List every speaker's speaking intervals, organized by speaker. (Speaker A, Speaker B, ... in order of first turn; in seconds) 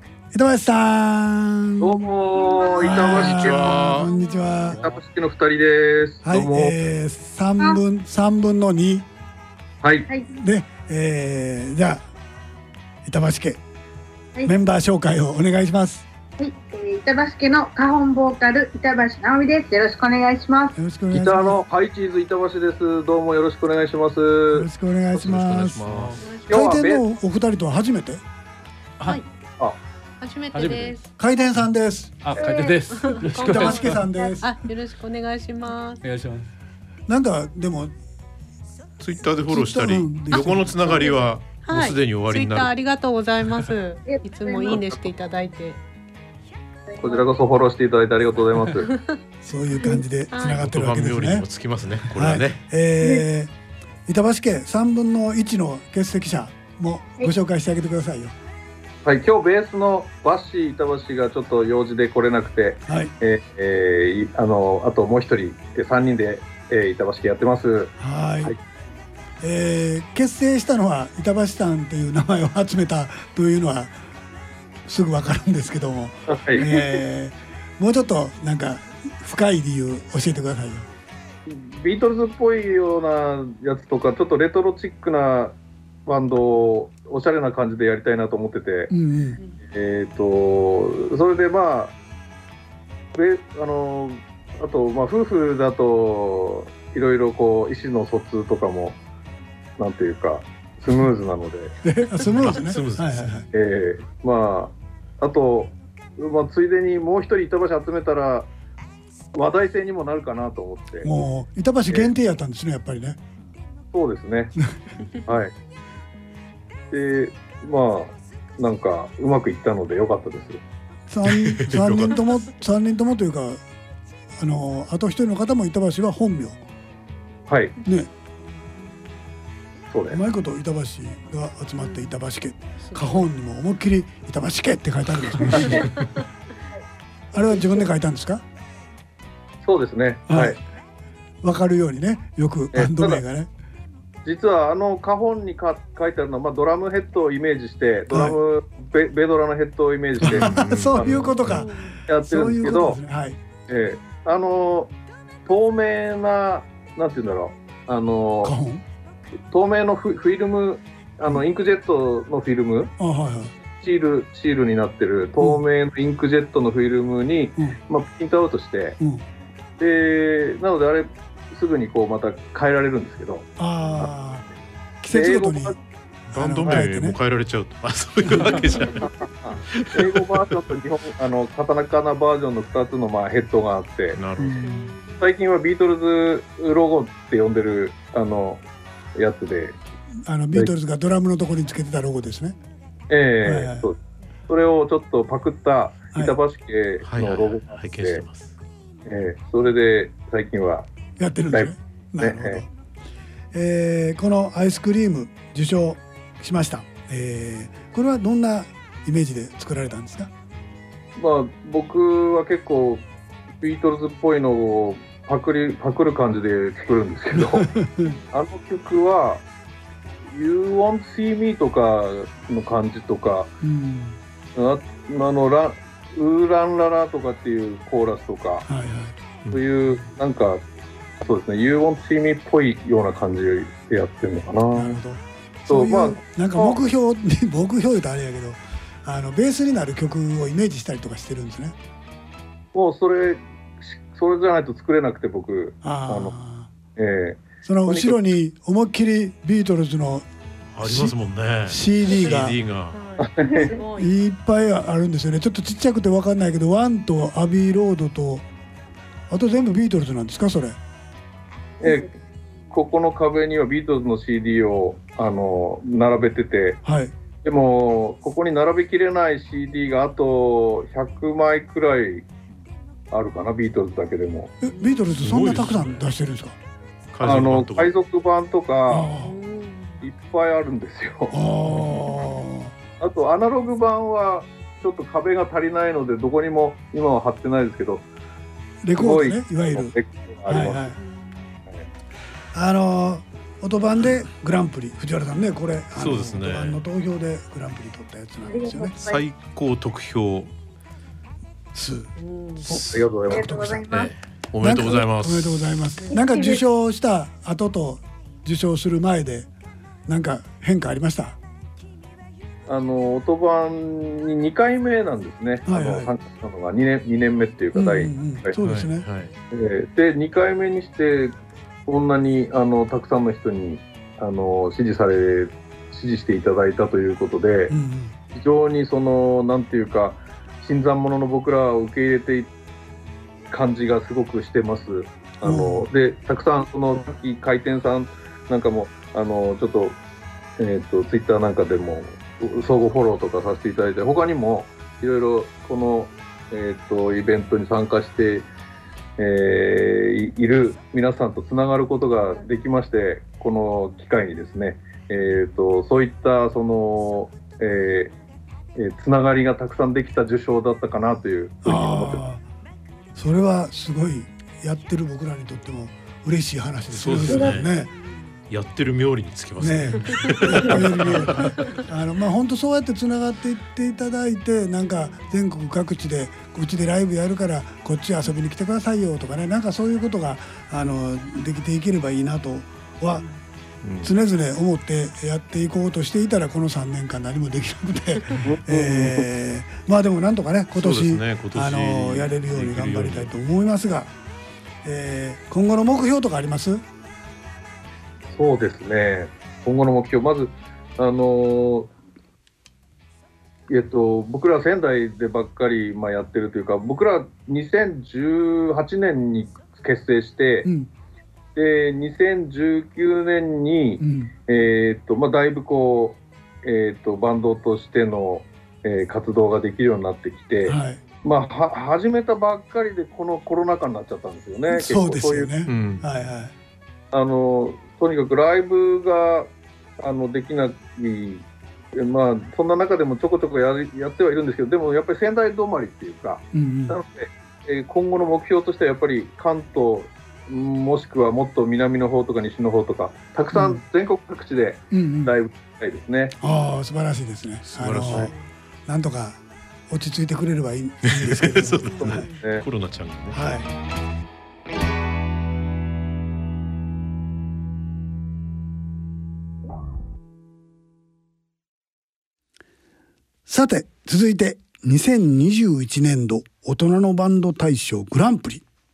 Speaker A: 0.3-2.1, 2.8-4.8, 6.2-9.1, 10.3-12.1, 13.1-13.6, 14.4-16.1, 20.8-21.6, 24.5-25.8, 26.5-28.2, 31.2-32.2, 33.4-34.6, 37.1-37.9, 39.5-41.1, 49.4-51.5, 52.1-53.5, 54.1-58.4, 62.9-63.1, 68.0-68.5, 69.4-74.0, 74.9-80.9, 88.9-89.4, 101.8-103.5, 111.0-113.2, 121.1-123.6, 124.4-126.6, 127.8-128.1, 130.1-136.1, 137.3-138.4, 140.3-140.6, 141.4-143.5, 148.1-148.4, 150.2-153.4, 158.4-158.8, 163.0-163.5, 173.6-174.5, 175.0-175.8, 176.3-177.2, 178.3-178.7, 184.4-184.8, 190.3-192.6, 193.4-193.9, 201.2-202.7, 203.5-210.3, 217.3-218.2, 223.6-224.2, 228.7-229.2, 234.8-241.8, 245.8-246.7, 247.7-250.3, 250.8-251.2, 251.7-252.6, 253.9-258.4, 259.3-260.8, 266.8-267.1, 274.6-276.6, 278.9-279.4, 281.3-282.7, 288.8-289.9, 290.5-291.0, 292.5-298.9, 301.7-302.1, 302.7-303.8, 304.6-309.5, 310.1-311.4, 315.7-316.1, 317.8-319.1, 327.7-328.1, 335.4-335.9, 361.6-362.4, 363.2-367.9, 369.6-383.2, 384.0-394.1, 394.8-396.8, 410.6-410.9, 414.0-414.3, 420.7-421.0, 424.7-426.5, 436.5-437.0, 443.5-443.8, 444.9-445.3, 446.4-448.3, 448.9-452.3, 453.3-453.7, 463.5-468.6
Speaker B: 1.8-3.9, 4.8-6.8, 21.1-24.7, 26.5-27.0, 47.0-48.9, 59.0-67.9, 76.3-76.8, 81.5-88.9, 89.7-91.9, 93.2-99.0, 99.8-101.7, 103.5-108.5, 109.3-111.1, 113.9-114.6, 115.3-115.5, 116.9-120.6, 127.5-127.8, 129.9-130.2, 139.6-140.6, 142.7-143.2, 144.2-151.3, 152.1-153.0, 153.7-154.9, 155.5-158.5, 159.5-162.9, 163.8-169.0, 169.8-173.5, 175.1-175.8, 179.0-184.2, 185.2-188.6, 189.2-189.8, 193.1-198.2, 199.1-200.9, 201.5-202.6, 211.2-213.1, 213.6-217.7, 218.3-219.4, 220.3-223.5, 224.6-228.7, 229.5-230.6, 231.2-234.9, 235.7-236.8, 242.7-246.3, 247.0-248.2, 253.2-253.7, 262.7-266.8, 267.4-272.3, 273.1-274.5, 277.2-279.1, 280.0-281.4, 283.0-288.1, 289.0-290.9, 302.8-303.6, 312.7-318.5, 319.5-321.3, 321.9-327.7, 328.3-332.5, 333.5-340.0, 340.6-348.5, 349.2-358.1, 358.8-362.2, 388.4-389.3, 398.3-401.9, 403.7-410.7, 411.6-425.5, 427.1-429.5, 430.0-446.4, 452.0-452.6
Speaker C: 3.0-4.1, 25.1-26.2, 39.0-42.7, 50.5-52.6, 102.3-103.3, 121.2-122.2, 150.2-151.7, 176.3-179.1, 179.7-180.3, 184.1-184.7, 197.1-198.5, 250.8-253.0, 275.2-276.1, 277.1-277.9, 296.0-296.8, 299.0-300.5, 303.9-305.6, 318.6-319.3, 366.9-367.7, 368.5-371.5, 383.8-384.1, 390.8-393.3, 425.7-426.0, 447.7-448.3, 451.1-453.4
Speaker D: 16.4-20.8, 44.0-44.8, 253.4-253.7, 298.4-299.2, 303.3-304.1, 306.1-306.6
Speaker E: 25.9-26.2, 30.5-31.0, 32.2-34.0, 36.0-36.5
Speaker F: 26.2-26.6, 30.2-31.1, 32.4-36.0, 41.0-45.8, 50.3-50.6, 132.8-133.3, 151.6-152.0, 184.7-185.1, 252.9-254.1, 279.2-280.0, 291.0-291.3